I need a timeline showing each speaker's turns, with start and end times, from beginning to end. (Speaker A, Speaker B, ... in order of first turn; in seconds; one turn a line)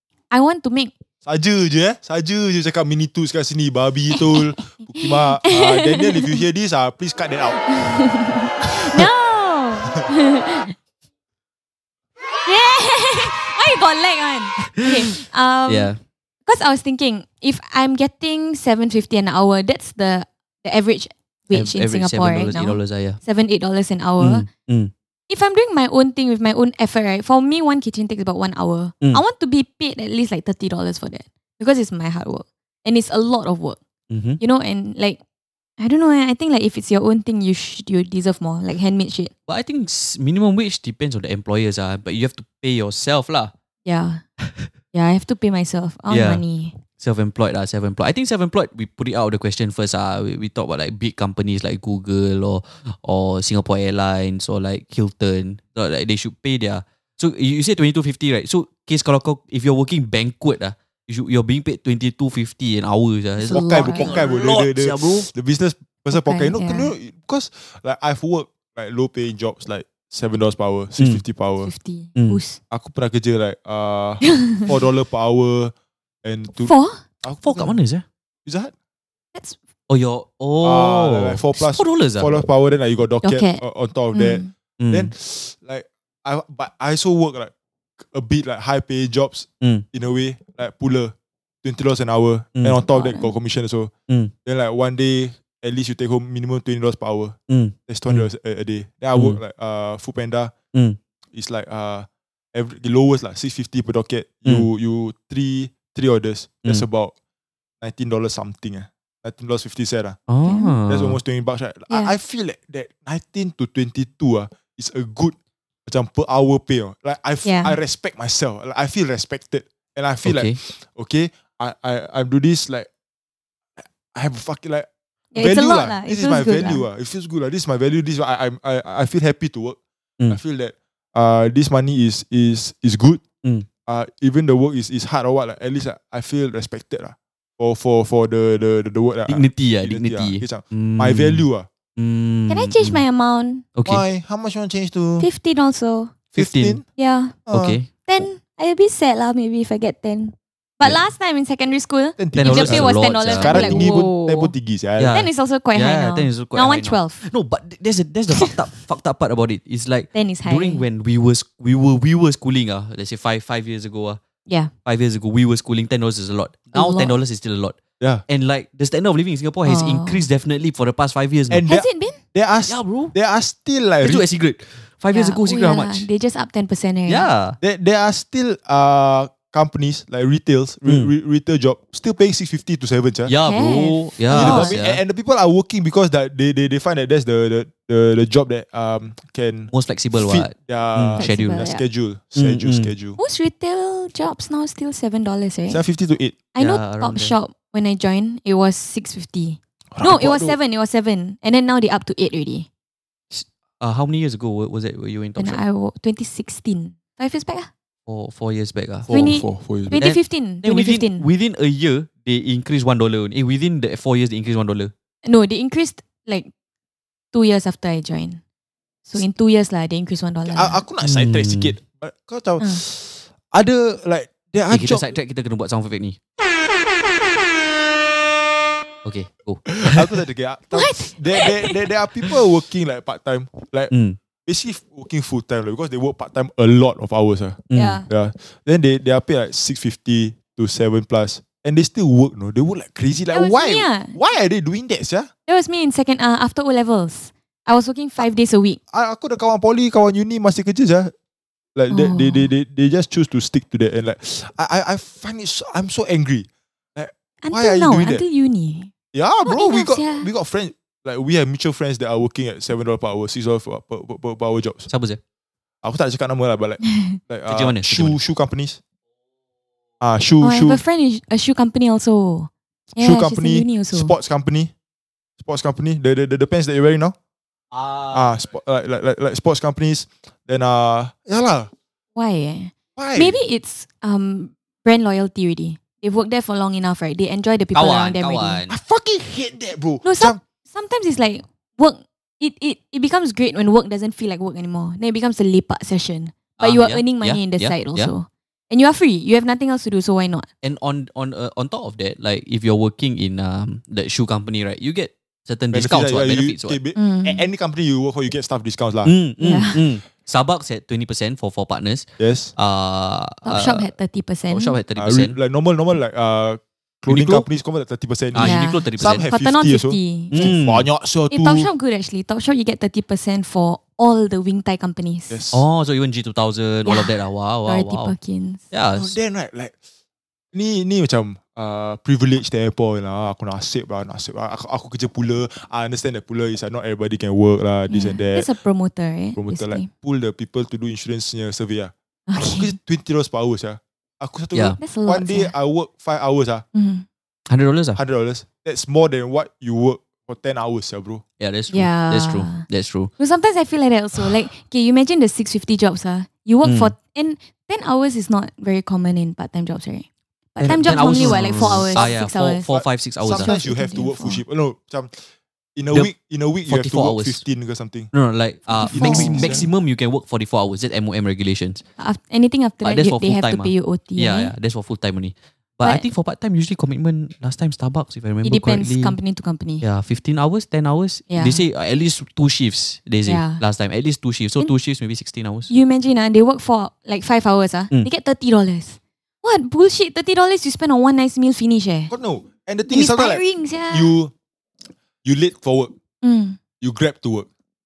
Speaker A: 0.3-0.9
Speaker B: 1.2-7.7
Speaker A: 4.1-4.4
Speaker A: 5.5-6.4
Speaker A: 7.7-10.7
Speaker A: 12.4-15.9
Speaker C: 15.7-16.0
Speaker A: 16.4-24.5
Speaker C: 21.5-23.2
Speaker C: 24.2-24.9
Speaker A: 25.3-33.8
Speaker C: 34.1-34.4
Speaker A: 34.4-35.2
Speaker A: 35.8-39.3
Speaker C: 39.5-43.5
Speaker A: 43.9-44.2
Speaker C: 44.4-44.7
Speaker A: 44.9-46.8
Speaker C: 46.1-46.4
Speaker C: 47.0-65.3
Speaker A: 63.4-64.2
Speaker B: 63.4-71.7
Speaker A: 66.1-66.9
Speaker A: 71.6-72.6
Speaker C: 72.2-72.4
Speaker B: 72.7-76.7
Speaker A: 74.2-74.7
Speaker A: 76.6-77.0
Speaker B: 77.2-77.8
Speaker C: 77.4-78.0
Speaker B: 78.5-78.7
Speaker C: 79.9-82.3
Speaker B: 80.6-93.9
Speaker A: 83.2-84.5
Speaker C: 84.8-85.1
Speaker A: 92.9-93.3
Speaker B: 94.5-100.5
Speaker C: 97.5-98.3
Speaker C: 99.1-99.4
Speaker B: 101.3-107.1
Speaker B: 107.8-110.2
Speaker C: 110.3-111.2
Speaker A: 110.4-110.8
Speaker B: 110.9-122.9
Speaker A: 117.4-117.8
Speaker C: 120.2-120.5
Speaker B: 123.8-129.8
Speaker A: 125.3-126.8
Speaker B: 130.3-133.2
Speaker B: 133.8-141.7
Speaker C: 139.3-143.0
Speaker A: 142.5-143.6
Speaker C: 143.8-144.0
Speaker B: 143.8-145.3
Speaker A: 145.2-146.1
Speaker C: 146.3-146.8
Speaker B: 146.3-146.8
Speaker A: 147.0-147.3
Speaker B: 147.5-147.8
Speaker C: 147.5-147.9
Speaker A: 148.0-154.5
Speaker B: 152.2-155.1
Speaker C: 152.3-153.9
Speaker C: 155.0-164.2
Speaker A: 155.1-157.2
Speaker A: 160.1-160.8
Speaker A: 164.5-164.7
Speaker C: 164.8-167.8
Speaker A: 166.7-167.2
Speaker C: 168.3-171.6
Speaker A: 169.6-170.3
Speaker B: 171.5-174.2
Speaker A: 171.7-172.2
Speaker C: 172.7-173.1
Speaker C: 174.0-176.1
Speaker A: 175.1-177.3
Speaker C: 177.1-177.6
Speaker B: 177.6-183.3
Speaker C: 180.8-181.1
Speaker C: 183.3-185.0
Speaker A: 183.4-184.8
Speaker B: 184.3-193.2
Speaker C: 189.7-191.7
Speaker A: 191.2-191.8
Speaker C: 192.3-192.9
Speaker A: 193.2-195.8
Speaker B: 195.7-196.4
Speaker A: 196.5-202.7
Speaker C: 196.6-197.3
Speaker B: 199.9-200.6
Speaker C: 203.3-205.6
Speaker A: 205.4-207.7
Speaker C: 208.1-209.3
Speaker B: 209.1-210.0
Speaker A: 209.1-211.3
Speaker C: 210.0-214.9
Speaker A: 215.2-216.5
Speaker A: 217.3-218.4
Speaker A: 219.1-220.8
Speaker B: 220.5-225.1
Speaker C: 221.0-221.7
Speaker C: 224.7-226.2
Speaker C: 229.0-230.0
Speaker B: 229.8-233.9
Speaker A: 230.7-231.8
Speaker C: 233.9-234.2
Speaker B: 234.4-245.3
Speaker C: 237.7-238.0
Speaker A: 237.7-238.1
Speaker A: 243.3-244.2
Speaker A: 245.5-248.8
Speaker B: 248.9-251.1
Speaker B: 251.8-258.2
Speaker A: 251.9-252.5
Speaker A: 257.4-258.9
Speaker B: 259.1-264.9
Speaker A: 259.4-260.3
Speaker C: 264.9-265.2
Speaker B: 265.8-268.8
Speaker A: 266.8-267.2
Speaker C: 267.5-268.2
Speaker B: 270.0-270.8
Speaker A: 270.4-274.1
Speaker B: 273.0-274.7
Speaker B: 275.4-277.1
Speaker C: 277.7-278.4
Speaker B: 278.1-281.7
Speaker A: 282.1-288.6
Speaker B: 282.9-283.4
Speaker C: 287.7-288.8
Speaker B: 288.7-290.4
Speaker A: 290.0-300.5
Speaker C: 296.6-298.1
Speaker C: 300.6-306.8
Speaker B: 305.7-309.1
Speaker A: 306.9-307.4
Speaker C: 309.0-313.9
Speaker A: 309.4-309.8
Speaker B: 312.2-312.5
Speaker A: 313.4-314.8
Speaker C: 314.5-315.4
Speaker B: 315.0-321.7
Speaker C: 317.1-317.4
Speaker C: 318.3-319.3
Speaker A: 318.4-320.5
Speaker C: 320.3-320.9
Speaker A: 321.3-325.4
Speaker B: 325.3-325.6
Speaker C: 325.5-328.1
Speaker A: 326.9-327.1
Speaker A: 327.6-328.6
Speaker C: 328.7-329.1
Speaker B: 328.9-329.8
Speaker B: 330.5-338.5
Speaker A: 337.9-339.9
Speaker B: 339.3-346.6
Speaker A: 342.3-342.8
Speaker C: 344.5-344.8
Speaker A: 344.8-345.5
Speaker A: 346.7-347.1
Speaker C: 347.5-348.0
Speaker B: 347.9-351.2
Speaker C: 351.4-353.1
Speaker A: 351.7-352.6
Speaker A: 353.2-362.7
Speaker C: 356.6-356.9
Speaker C: 360.6-363.5
Speaker B: 360.6-362.2
Speaker B: 362.7-365.2
Speaker A: 363.3-364.4
Speaker B: 365.8-368.1
Speaker C: 366.6-367.4
Speaker C: 368.1-371.8
Speaker A: 368.7-369.6
Speaker B: 368.9-369.7
Speaker A: 372.0-374.5
Speaker C: 372.8-379.2
Speaker A: 378.4-379.8
Speaker C: 379.8-385.7
Speaker A: 381.3-381.6
Speaker A: 383.2-383.6
Speaker A: 385.7-392.1
Speaker B: 392.1-394.3
Speaker A: 392.9-394.1
Speaker B: 395.2-395.9
Speaker A: 396.2-396.6
Speaker B: 396.8-397.5